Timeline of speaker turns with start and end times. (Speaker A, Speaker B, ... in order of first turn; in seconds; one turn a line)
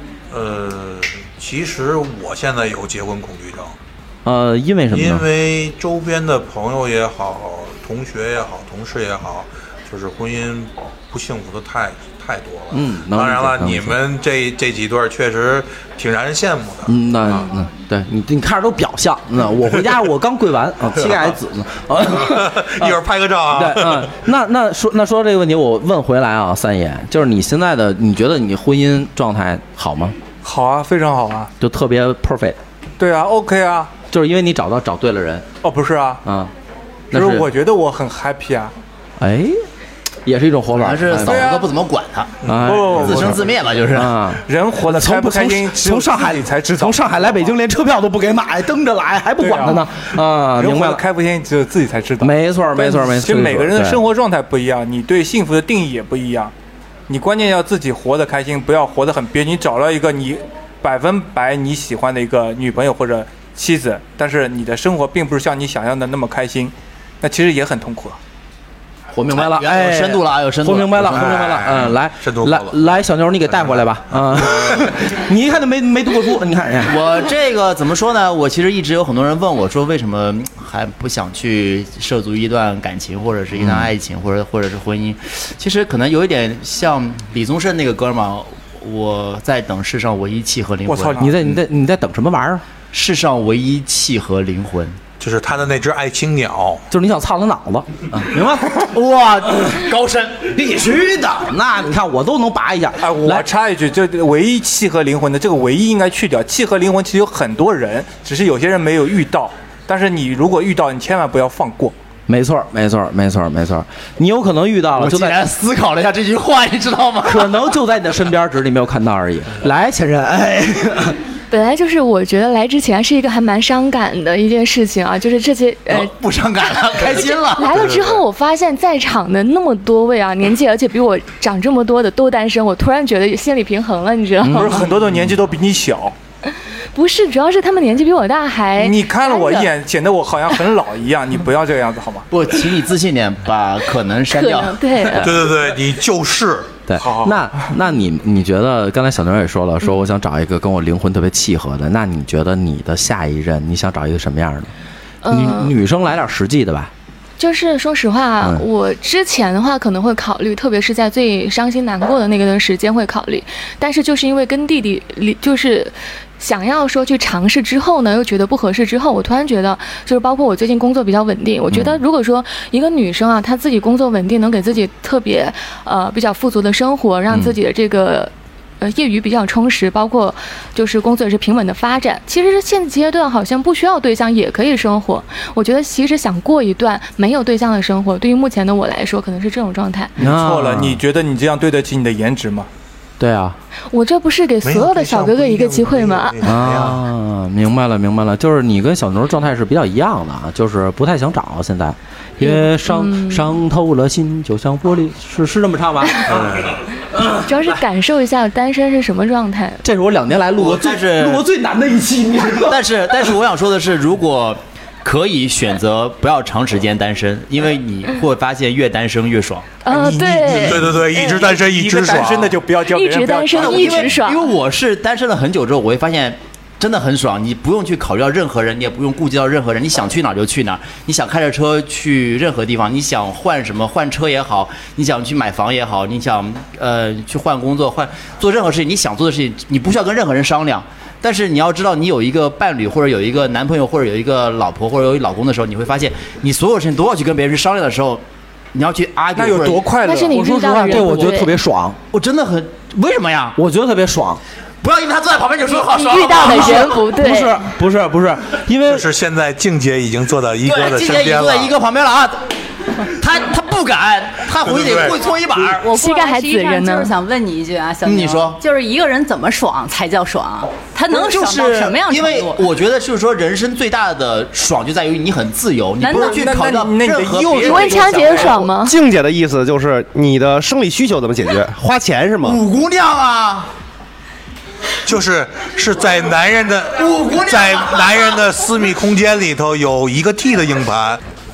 Speaker A: 0.3-3.7
Speaker B: 4.2-5.2
Speaker A: 4.9-16.9
Speaker B: 12.7-14.0
Speaker B: 16.9-30.2
Speaker A: 22.2-24.1
Speaker C: 30.4-31.5
Speaker B: 31.6-32.6
Speaker C: 33.0-33.9
Speaker B: 34.1-35.5
Speaker C: 35.6-36.2
Speaker B: 36.2-36.5
Speaker B: 37.1-37.5
Speaker C: 37.1-38.7
Speaker B: 39.2-39.6
Speaker B: 40.2-41.5
Speaker D: 40.8-44.2
Speaker C: 41.2-41.7
Speaker A: 42.4-42.7
Speaker B: 42.4-51.0
Speaker C: 42.6-43.4
Speaker C: 44.5-47.5
Speaker C: 49.4-49.9
Speaker C: 50.5-56.5
Speaker B: 52.2-54.0
Speaker C: 57.1-68.2
Speaker B: 69.1-77.1
Speaker D: 69.3-71.7
Speaker A: 71.0-72.8
Speaker A: 73.5-74.9
Speaker D: 76.8-91.3
Speaker B: 83.6-83.9
Speaker C: 90.8-91.3
Speaker B: 91.2-92.6
Speaker D: 92.9-95.0
Speaker A: 95.2-96.8
Speaker B: 96.9-99.8
Speaker D: 98.9-100.5
Speaker B: 100.4-103.5
Speaker C: 103.0-111.9
Speaker B: 112.3-115.5
Speaker D: 115.0-117.7
Speaker B: 117.2-121.2
Speaker E: 121.5-126.1
Speaker D: 125.9-127.9
Speaker E: 126.9-134.8
Speaker A: 127.8-128.2
Speaker B: 134.4-134.9
Speaker C: 134.5-136.1
Speaker E: 136.5-139.7
Speaker C: 138.8-142.2
Speaker D: 142.3-144.8
Speaker E: 144.3-145.3
Speaker A: 145.1-146.8
Speaker B: 146.9-154.7
Speaker C: 147.0-147.4
Speaker E: 155.2-155.7
Speaker B: 155.3-156.9
Speaker E: 157.4-190.1
Speaker B: 190.2-191.0
Speaker C: 190.2-192.7
Speaker B: 193.2-193.6
Speaker E: 193.9-196.4
Speaker A: 194.6-197.0
Speaker B: 196.4-207.8
Speaker E: 202.4-203.6
Speaker A: 206.2-206.8
Speaker E: 207.4-209.8
Speaker B: 209.8-213.3
Speaker D: 210.6-211.4
Speaker D: 212.6-219.8
Speaker E: 219.8-221.4
Speaker C: 219.9-224.2
Speaker A: 220.3-222.6
Speaker E: 222.9-224.4
Speaker D: 223.5-248.2
Speaker D: 248.7-249.9
Speaker C: 249.3-251.1
Speaker E: 250.0-251.5
Speaker B: 250.4-252.0
Speaker D: 252.1-253.6
Speaker B: 253.5-254.4
Speaker D: 254.8-257.0
Speaker E: 255.7-257.6
Speaker B: 256.4-259.1
Speaker A: 258.9-261.7
Speaker D: 260.6-265.9
Speaker A: 264.6-265.2
Speaker F: 265.8-272.7
Speaker E: 265.9-267.1
Speaker D: 268.0-268.6
Speaker D: 271.1-278.6
Speaker F: 276.0-276.4
Speaker C: 276.1-278.6
Speaker E: 277.6-278.9
Speaker G: 278.7-282.6
Speaker D: 282.4-283.7
Speaker A: 285.0-291.2
Speaker D: 287.0-288.3